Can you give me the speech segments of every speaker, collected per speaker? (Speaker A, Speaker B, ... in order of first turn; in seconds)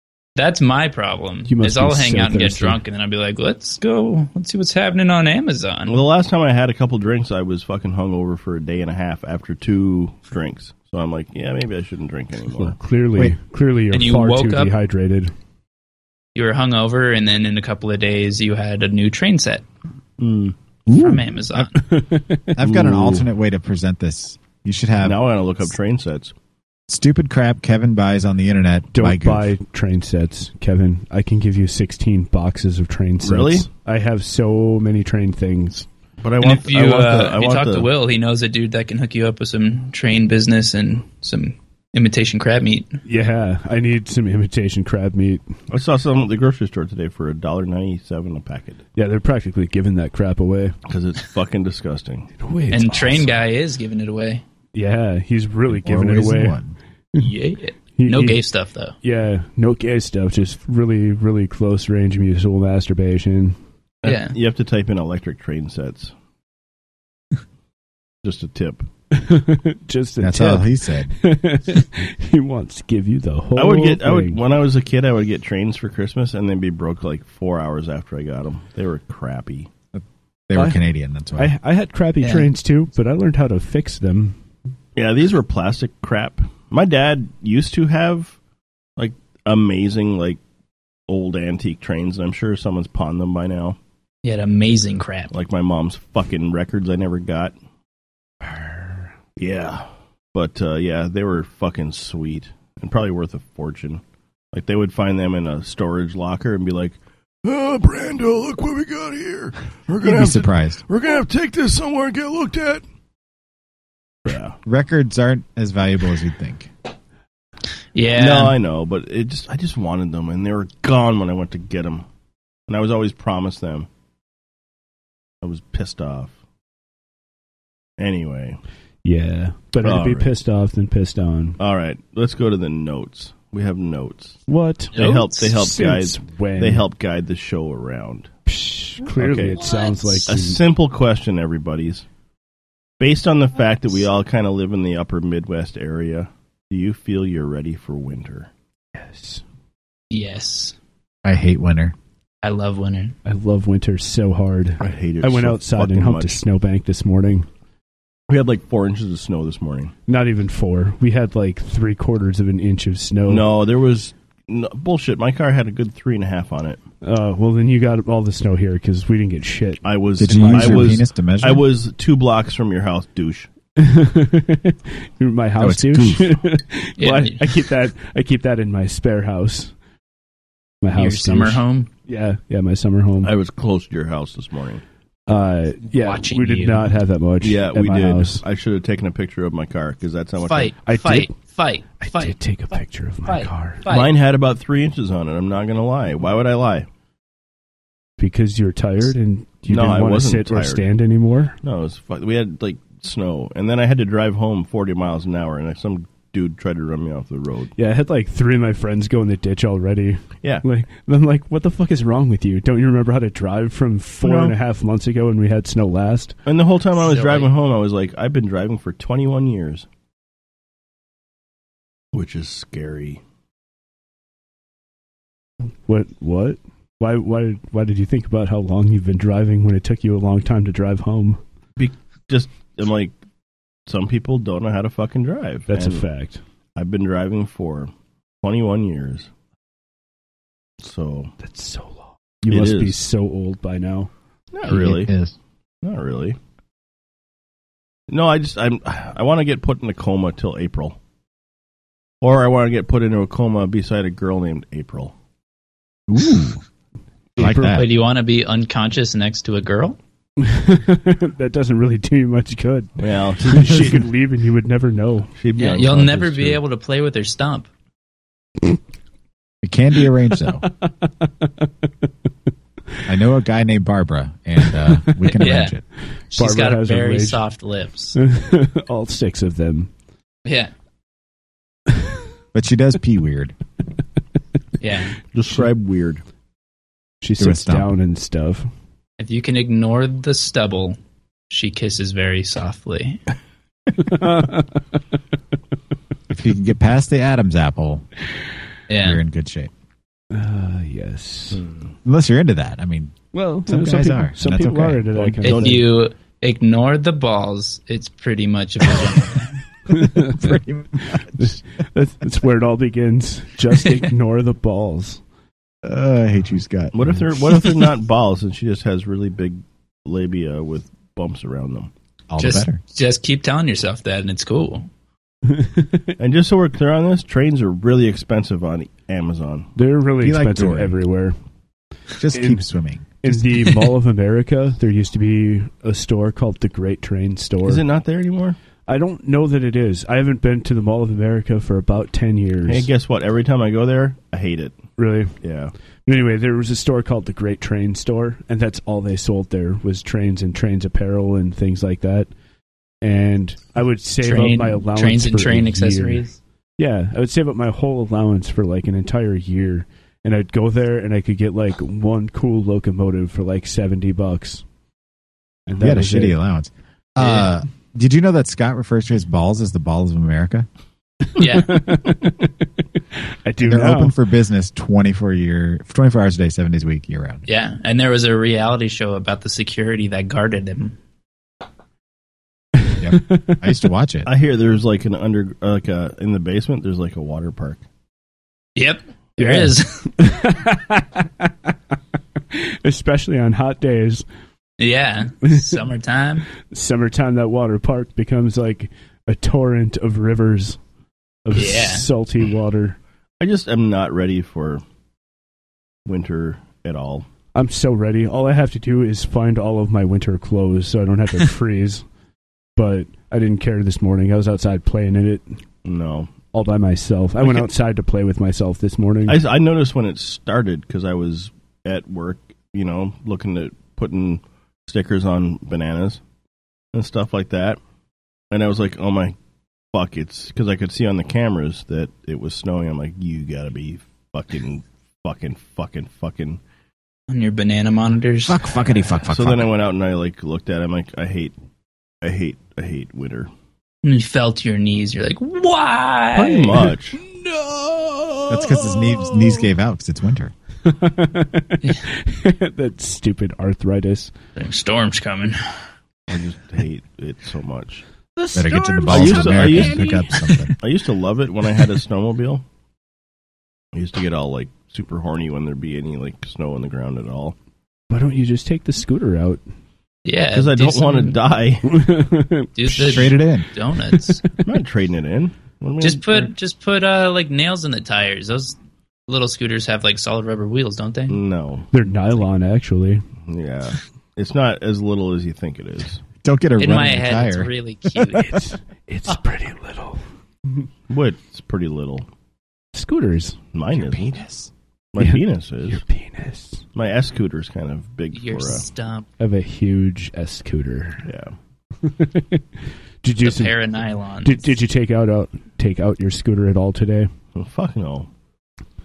Speaker A: 0.4-6.0, 13.9-14.7, 16.4-19.6, 20.9-21.7, 36.4-43.0, 52.7-54.4, 57.2-59.0, 64.0-64.3, 82.2-82.5, 94.2-95.3, 118.0-118.5, 139.6-140.2, 150.1-150.8, 152.4-153.2, 177.0-177.4, 180.9-181.9, 185.9-186.9, 190.4-192.4, 193.2-194.1, 217.0-217.5, 257.7-260.0, 265.6-267.7, 275.4-275.7, 276.3-278.2, 280.5-280.7, 284.8-285.2, 289.2-291.0, 291.5-293.2, 298.9-299.2, 305.4-309.6, 322.4-324.9, 354.2-356.4, 367.2-367.5, 371.4-371.8, 377.5-381.0, 388.8-390.1, 394.8-396.5, 401.5-402.1, 437.3-439.1, 444.0-446.9, 454.6-455.6, 470.2-471.4, 472.8-474.4, 476.0-478.8, 479.3-481.4, 486.8-488.6, 498.3-499.3, 503.4-504.7
Speaker B: 1.5-2.8, 12.6-15.3, 21.9-22.6, 28.9-35.9, 43.0-45.5, 49.0-50.8, 52.4-53.4, 54.7-56.6, 58.0-58.4, 59.0-63.6, 69.1-74.4, 80.5-80.8, 81.4-84.4, 98.4-99.1, 129.0-131.6, 134.5-136.8, 138.5-140.6, 148.9-149.4, 153.2-157.5, 160.1-163.4, 167.0-170.9, 173.8-179.7, 180.8-183.3, 185.3-188.4, 190.8-191.3, 192.0-193.8, 198.2-201.6, 207.8-216.4, 225.9-231.4, 235.7-236.4, 241.4-244.1, 257.4-257.8, 260.4-262.9, 263.4-265.3, 270.8-271.7, 276.4-277.4, 278.1-279.9, 287.2-288.7, 294.0-294.8, 300.3-301.6, 303.3-305.8, 309.9-310.6, 311.4-315.2, 325.5-326.1, 329.8-331.4, 332.3-332.6, 333.2-337.8, 338.9-342.9, 345.0-345.4, 346.1-352.3, 353.0-356.2, 356.8-364.6, 365.7-366.4, 371.4-372.7, 373.4-374.1, 382.8-383.6, 389.4-391.7, 392.5-394.3, 395.5-395.8, 396.7-400.8, 401.5-403.0, 407.6-412.1, 412.8-415.6, 416.5-419.4, 447.2-449.5, 450.9-454.3, 458.4-460.7, 468.1-469.6, 471.9-472.7, 481.9-483.2, 488.2-490.2, 492.9-493.6, 495.2-496.8, 499.4-501.2, 502.0-502.6, 503.2-503.8, 504.4-507.3
Speaker C: 5.9-12.8, 20.2-20.6, 22.6-23.2, 25.0-26.3, 33.2-33.7, 36.2-37.9, 45.7-48.8, 50.9-52.3, 64.0-66.1, 68.2-68.9, 73.6-79.7, 85.0-88.4, 89.0-90.4, 91.1-93.8, 95.3-97.6, 99.4-112.8, 114.2-114.6, 118.2-122.1, 122.7-123.9, 125.4-126.4, 128.0-128.6, 129.8-130.3, 131.6-134.4, 134.9-138.3, 139.2-139.7, 140.3-142.1, 143.0-148.5, 154.8-156.4, 158.3-159.9, 163.3-166.8, 169.8-173.5, 183.2-184.8, 187.4-190.7, 193.9-196.9, 199.7-200.9, 201.6-207.7, 214.2-214.6, 216.5-219.9, 222.1-223.2, 231.8-233.2, 233.9-236.1, 236.8-237.9, 238.4-239.3, 240.8-241.3, 242.5-243.0, 244.5-245.1, 245.8-246.4, 248.1-251.0, 252.2-255.1, 263.0-264.0, 265.4-266.6, 285.3-286.2, 301.5-301.9, 305.2-305.8, 316.9-321.9, 326.2-329.7, 337.6-338.6, 342.7-344.8, 345.4-345.7, 384.3-387.8, 403.4-404.8, 406.1-407.3, 415.9-416.3, 419.3-426.2, 426.9-427.8, 428.5-429.4, 429.9-436.6, 439.3-441.6, 442.2-443.5, 446.4-447.2, 456.3-458.0, 459.1-460.1, 460.8-462.6, 463.9-467.6, 470.5-471.8, 474.6-476.5, 481.3-481.9, 483.4-486.2, 491.1-492.3, 493.7-494.2, 495.1-496.0, 496.9-498.9, 501.2-501.5, 507.6-508.3
Speaker D: 20.9-21.7, 22.6-25.2, 26.9-29.5, 55.7-56.8, 70.2-71.1, 79.9-81.5, 110.0-110.8, 114.7-116.7, 151.2-151.9, 170.2-171.6, 175.6-176.3, 244.7-245.3, 256.1-256.6, 257.4-257.9, 269.6-270.6, 273.1-275.8, 282.5-283.6, 287.4-287.9, 296.3-298.1, 299.0-299.7, 302.0-305.1, 310.2-311.6, 315.8-317.2, 322.3-322.8, 330.2-331.0, 332.2-333.7, 365.8-370.7, 373.6-377.4, 383.0-384.3, 438.5-439.7, 448.5-450.5, 458.5-460.7, 472.9-473.7, 486.4-487.7, 493.9-494.7